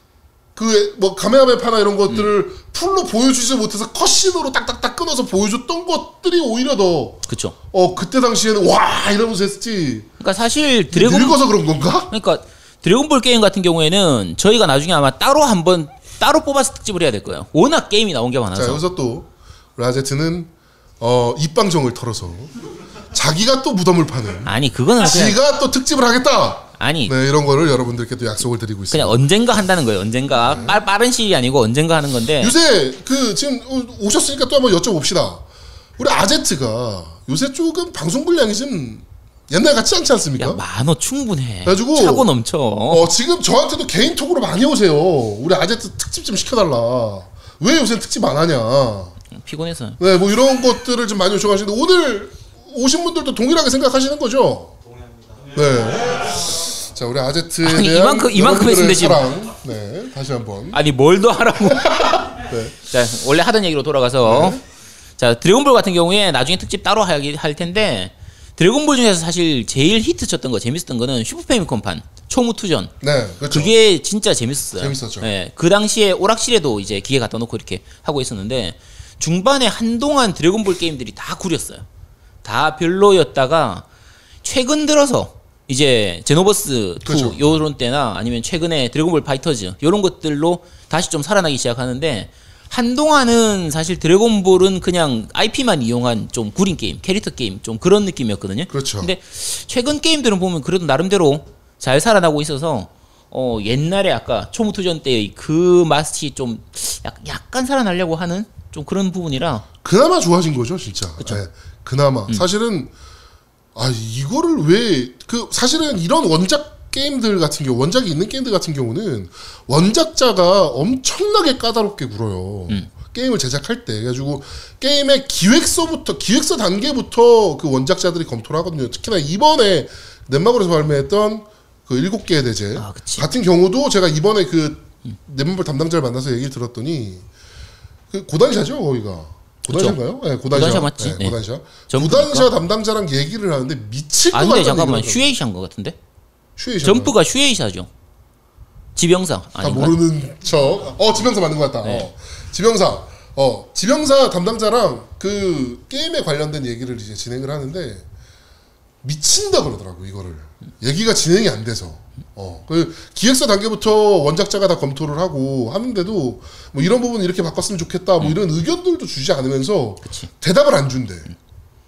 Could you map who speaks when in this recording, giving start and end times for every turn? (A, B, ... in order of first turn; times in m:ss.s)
0:00.6-0:10.1 A
0:07.3-0:07.6 B
0:10.2-0:11.4 B
0:10.9-0:12.1 A
0:12.1-0:18.8 B
0:18.5-0:22.5 A
0:23.1-0:29.3 A
0:24.4-0:25.4 B
0:26.8-0:27.2 B
0:28.9-0:32.6 B
0:30.4-0:30.8 A
0:32.4-0:35.4 A
0:36.0-0:40.6 A
0:40.4-0:43.1 B
0:41.6-0:42.3 A
0:42.9-0:49.2 A
0:49.3-0:50.0 B
0:50.0-0:54.8 A
0:55.5-1:00.8 A
0:57.6-0:59.2 B
1:00.7-1:02.2 B
1:01.6-1:02.8 A
1:02.8-1:04.6 B
1:04.2-1:04.6 A
1:05.2-1:12.9 B
1:13.0-1:13.8 A
1:13.5-1:21.8 B
1:14.8-1:15.3 A
1:22.4-1:23.8 B
1:24.4-1:49.6 B
1:27.0-1:27.6 A
1:38.7-1:39.1 A
1:49.8-1:52.9 A
1:53.8-2:17.2 A
2:12.8-2:13.3 B
2:18.1-2:25.3 A
2:19.7-2:22.5 B
2:24.3-2:26.0 B
2:26.6-2:27.2 A
2:26.8-2:27.9 B
2:29.0-2:30.0 B
2:29.6-2:38.1 A
2:31.8-2:32.1 B
2:39.0-2:51.3 A
2:50.0-2:50.3 B